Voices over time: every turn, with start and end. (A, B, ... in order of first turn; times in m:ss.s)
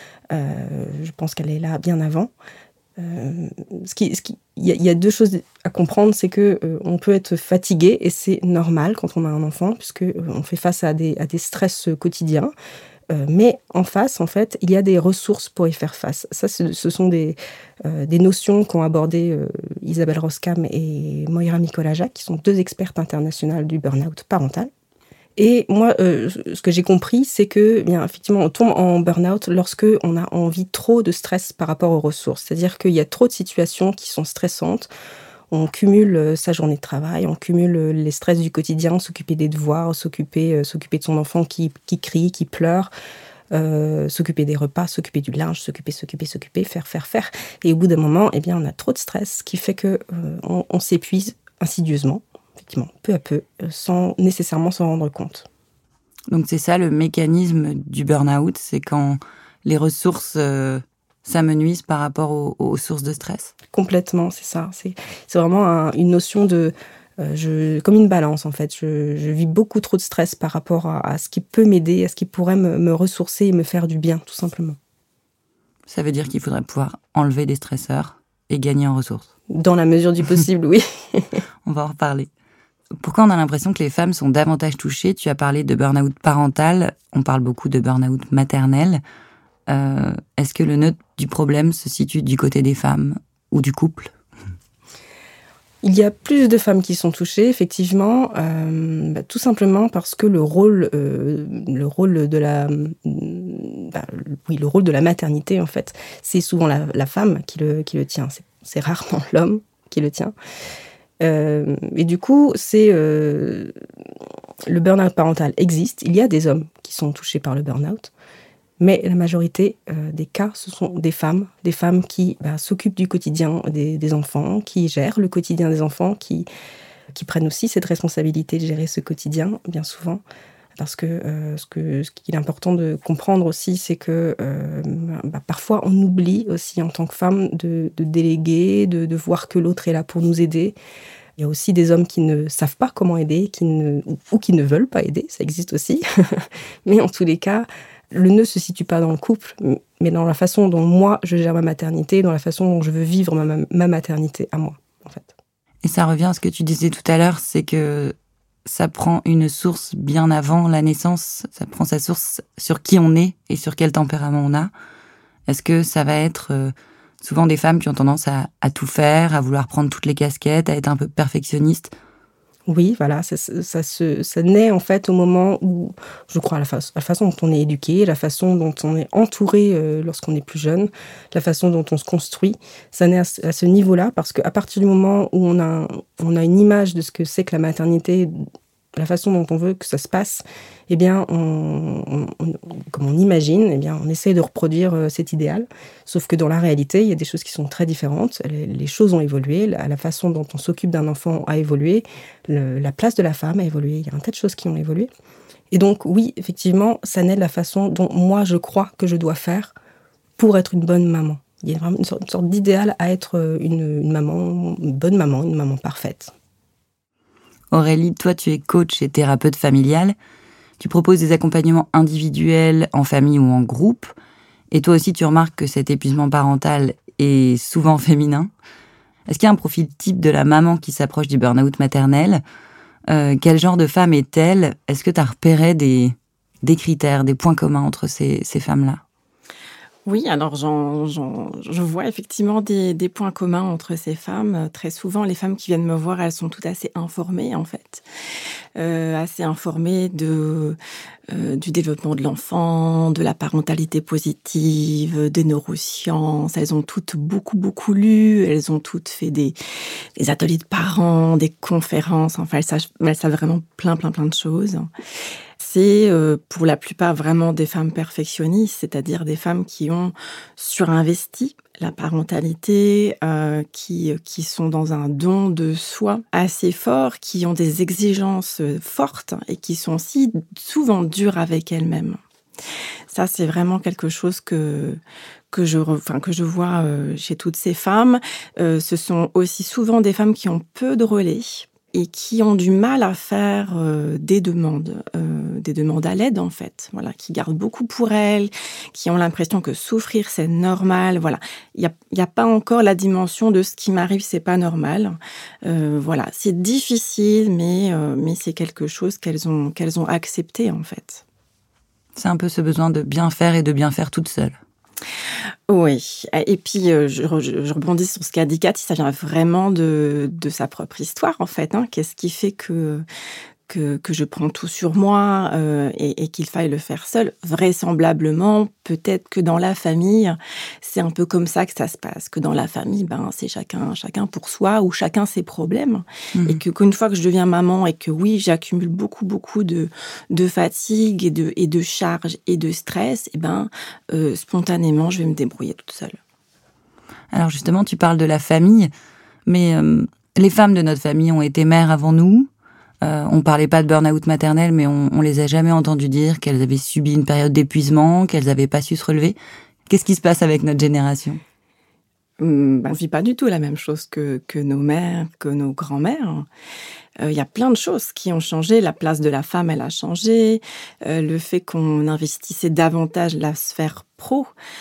0:00.3-0:02.3 A
0:03.0-0:12.5 A
0:13.1-0:24.7 A
0:25.4-0:34.9 A
0:35.5-0:42.9 A
0:43.5-0:55.5 A
0:56.3-1:03.5 B
1:03.7-1:14.8 A
1:15.9-1:19.3 B
1:19.5-1:21.4 A
1:21.7-1:22.3 B
1:23.0-1:29.0 B
1:29.7-1:34.1 B
1:35.8-1:50.3 A
1:51.2-1:53.7 A
1:54.7-1:58.1 A
1:58.8-2:06.5 A
2:07.1-2:10.2 A
2:10.8-2:20.8 A
2:21.4-2:35.4 A
2:35.8-2:44.7 B
2:45.5-2:51.9 B
2:52.7-3:08.3 A
3:09.0-3:25.1 A
3:25.7-3:29.8 A
3:30.4-3:36.3 A
3:37.7-3:40.2 B
3:40.8-3:44.1 B
3:44.7-3:48.5 B
3:49.3-3:52.4 B
3:53.1-3:59.0 B
4:00.1-4:08.0 C
4:08.8-4:10.8 C
4:11.3-4:19.6 C
4:20.2-4:24.9 C
4:25.6-4:42.2 C
4:43.1-4:45.0 C
4:45.5-5:11.2 C
5:12.2-5:14.6 B
5:15.7-5:23.0 C
5:23.7-5:46.2 C
5:36.4-5:36.6 B
5:47.3-5:48.9 B
5:49.5-5:52.5 B
5:53.0-5:59.4 B
5:59.9-6:01.4 B
6:02.4-6:06.5 C
6:07.2-6:14.5 C